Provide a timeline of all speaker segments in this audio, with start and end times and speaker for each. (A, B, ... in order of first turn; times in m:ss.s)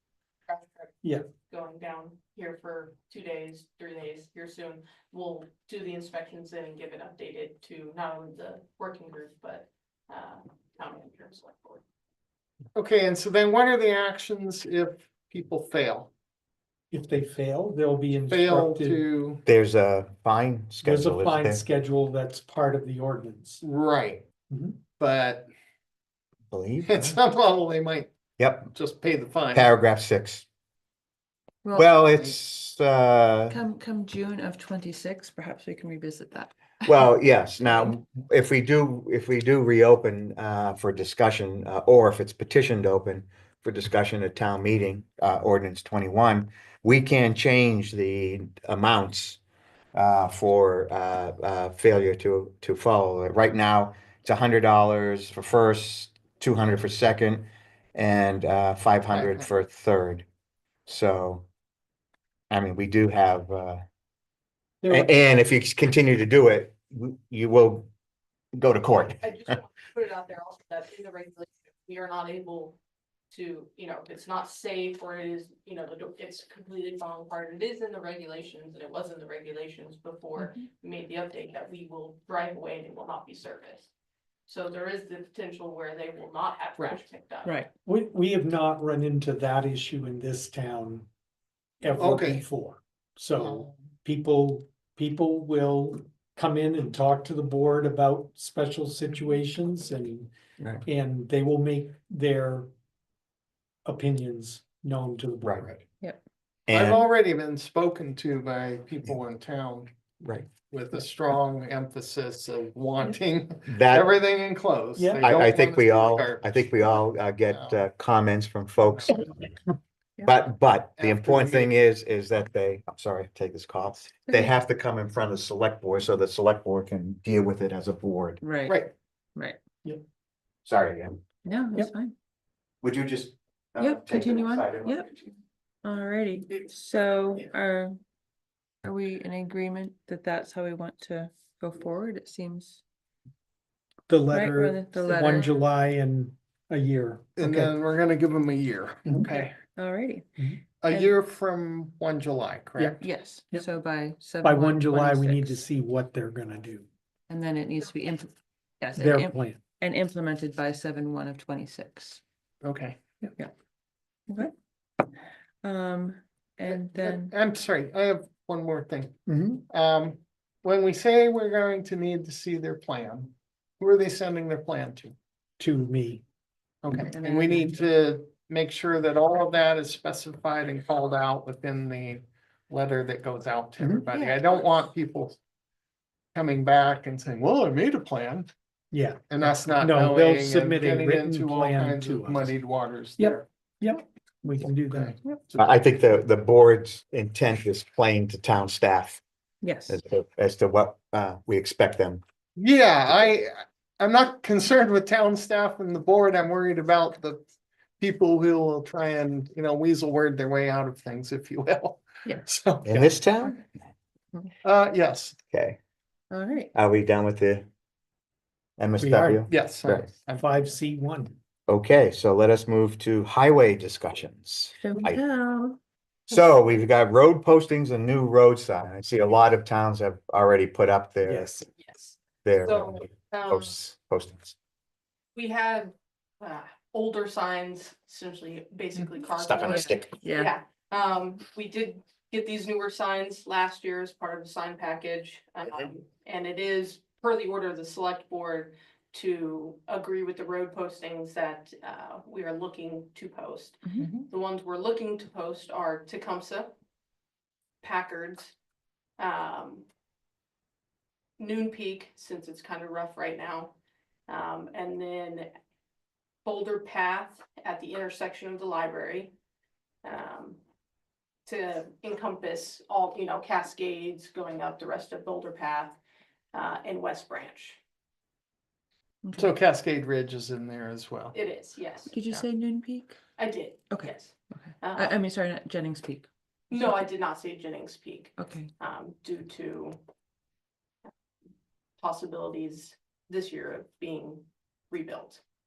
0:00.5-0:11.8 A
0:12.8-0:16.1 B
0:16.9-0:19.0 C
0:18.3-0:19.4 B
0:19.4-0:21.6 D
0:20.8-0:23.6 C
0:23.6-0:24.3 B
0:24.5-0:24.8 C
0:24.9-0:25.5 B
0:26.5-0:27.2 D
0:26.9-0:28.1 B
0:28.4-0:28.7 D
0:28.7-0:29.7 B
0:29.5-0:30.4 D
0:31.6-0:32.3 E
0:31.7-0:33.6 D
0:33.5-0:36.5 E
0:36.8-0:49.4 D
0:49.9-1:00.2 D
0:59.1-0:59.5 B
1:00.9-1:01.5 D
1:02.5-1:03.8 D
1:04.8-1:05.2 C
1:04.9-1:07.9 D
1:08.6-1:09.3 D
1:09.2-1:12.8 A
1:13.3-1:23.9 A
1:20.4-1:20.6 E
1:24.5-1:27.6 A
1:27.4-1:27.7 E
1:27.8-1:31.1 C
1:31.8-1:40.3 C
1:32.0-1:32.4 B
1:40.8-1:42.7 C
1:43.8-1:45.8 C
1:45.4-1:45.8 D
1:46.7-1:47.1 D
1:46.7-1:49.9 B
1:50.2-1:50.5 D
1:50.6-1:56.7 B
1:53.7-1:54.1 D
1:55.0-1:55.4 C
1:55.2-1:59.5 D
1:57.5-1:57.8 B
1:58.9-1:59.3 B
2:00.2-2:08.4 D
2:01.0-2:01.7 B
2:04.3-2:04.5 E
2:08.4-2:08.8 E
2:08.7-2:08.9 B
2:10.6-2:11.2 D
2:11.4-2:12.2 E
2:12.8-2:15.3 D
2:13.8-2:15.1 E
2:15.8-2:18.0 E
2:18.8-2:22.8 E
2:24.1-2:27.7 C
2:24.3-2:25.5 E
2:27.4-2:29.6 B
2:29.4-2:30.2 E
2:30.8-2:33.0 B
2:32.8-2:33.7 C
2:33.0-2:35.6 E
2:34.4-2:36.9 C
2:37.3-2:42.2 E
2:39.0-2:39.6 C
2:42.6-2:43.2 B
2:45.6-2:47.3 E
2:46.7-2:55.2 B
2:49.3-2:49.6 C
2:55.6-2:56.2 C
2:56.8-3:05.4 B
2:57.0-2:57.8 E
3:03.8-3:04.1 C
3:04.1-3:04.6 E
3:06.3-3:08.5 B
3:08.9-3:12.6 C
3:09.3-3:13.5 B
3:13.2-3:15.2 C
3:14.9-3:15.8 B
3:15.6-3:19.2 D
3:19.6-3:20.0 E
3:19.9-3:22.2 D
3:22.6-3:27.4 B
3:28.0-3:33.1 B
3:32.8-3:33.7 D
3:34.6-3:35.4 B
3:35.5-3:35.8 D
3:36.3-3:36.7 E
3:36.7-3:37.7 D
3:38.8-3:40.1 D
3:39.0-3:39.4 C
3:39.2-3:40.5 B
3:40.4-3:41.4 C
3:41.7-3:45.2 D
3:44.8-3:45.8 E
3:46.3-3:51.5 D
3:51.2-3:51.7 C
3:51.8-3:53.8 A
3:52.4-3:54.6 D
3:55.4-4:16.7 A
3:59.3-4:00.1 D
3:59.7-4:00.5 E
4:17.8-4:18.5 A
4:19.2-4:19.9 A
4:21.4-4:23.7 A
4:24.3-4:25.5 A
4:26.4-4:29.3 A
4:30.0-4:30.6 A
4:31.5-4:36.0 A
4:36.5-4:37.8 A
4:39.2-4:39.5 E
4:39.4-4:41.4 B
4:41.3-4:42.2 A
4:42.1-4:43.2 E
4:43.4-4:45.2 A
4:43.9-4:47.1 E
4:46.7-4:50.0 A
4:48.4-4:48.7 E
4:52.0-4:55.4 A